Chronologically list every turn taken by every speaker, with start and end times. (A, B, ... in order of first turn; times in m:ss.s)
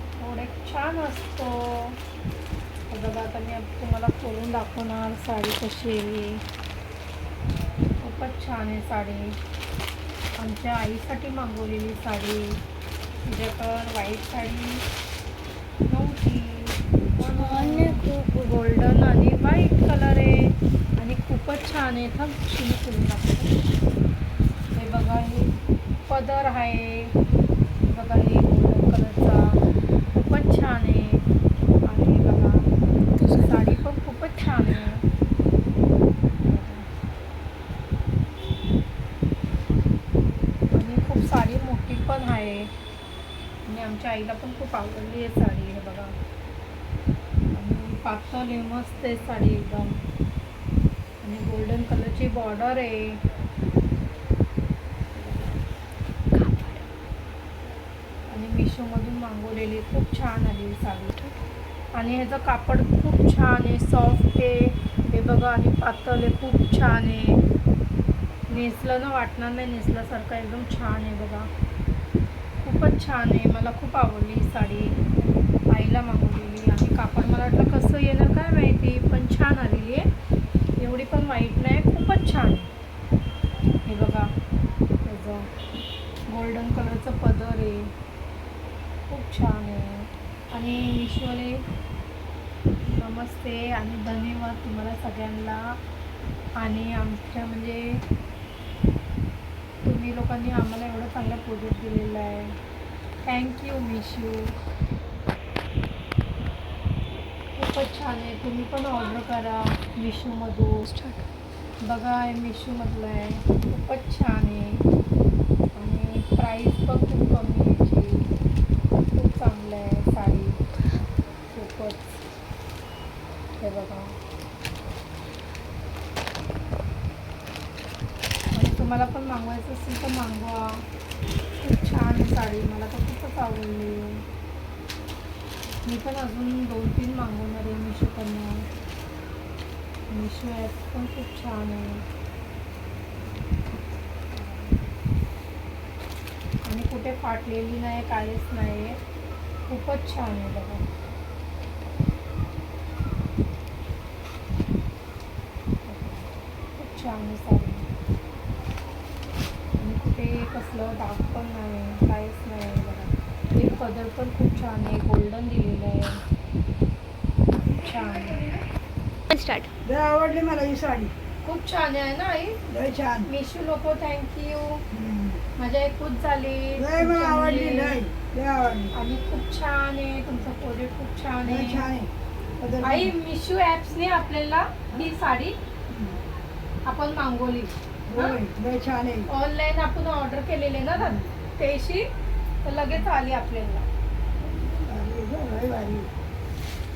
0:00.2-0:02.0 A
0:02.9-0:06.4 A
0:08.0-0:09.4 A
0:10.4-0:12.6 A
0:13.2-0:14.8 A
0:15.8-0:23.6 A
0:17.3-0:18.2 B
0:24.7-0:27.2 A
0:27.8-0:31.2 A
0:31.8-0:32.7 A
0:33.2-0:33.6 B
0:33.2-0:35.0 A
0:36.4-0:36.9 A
0:40.7-0:42.7 A
0:43.6-0:46.2 A
0:47.5-0:50.0 A
0:51.2-0:53.2 A
0:56.3-0:56.8 B
0:58.3-1:01.1 A
1:01.9-1:07.4 A
1:08.5-1:11.5 A
1:12.6-1:15.0 A
1:15.7-1:20.0 A
1:20.8-1:22.7 A
1:23.8-1:24.3 A
1:25.0-1:25.5 A
1:26.3-1:27.9 A
1:29.1-1:31.6 A
1:32.8-1:35.8 A
1:36.6-1:38.0 A
1:39.8-1:42.6 A
1:43.2-1:44.6 A
1:47.6-1:50.9 A
1:50.8-1:51.3 B
1:51.8-1:54.8 A
1:55.7-1:58.3 A
1:59.1-2:00.6 A
2:01.5-2:02.2 A
2:03.6-2:04.2 A
2:08.5-2:10.8 A
2:11.6-2:14.2 A
2:15.8-2:18.6 A
2:20.1-2:22.0 A
2:24.3-2:24.7 A
2:26.6-2:29.0 A
2:29.7-2:30.9 A
2:35.9-2:37.9 A
2:39.8-2:46.2 A
2:47.6-2:48.6 A
2:49.3-2:49.7 B
2:49.8-2:51.1 C
2:51.4-2:52.6 A
2:52.7-2:53.3 C
2:53.2-2:54.8 A
2:54.9-2:55.4 C
2:55.6-2:58.0 A
2:56.8-2:58.9 C
2:58.9-3:01.9 A
3:01.4-3:03.1 C
3:02.8-3:05.6 A
3:05.9-3:06.2 C
3:06.8-3:08.4 A
3:08.1-3:09.3 C
3:09.3-3:12.1 A
3:11.0-3:11.3 C
3:12.6-3:13.9 A
3:14.5-3:16.1 C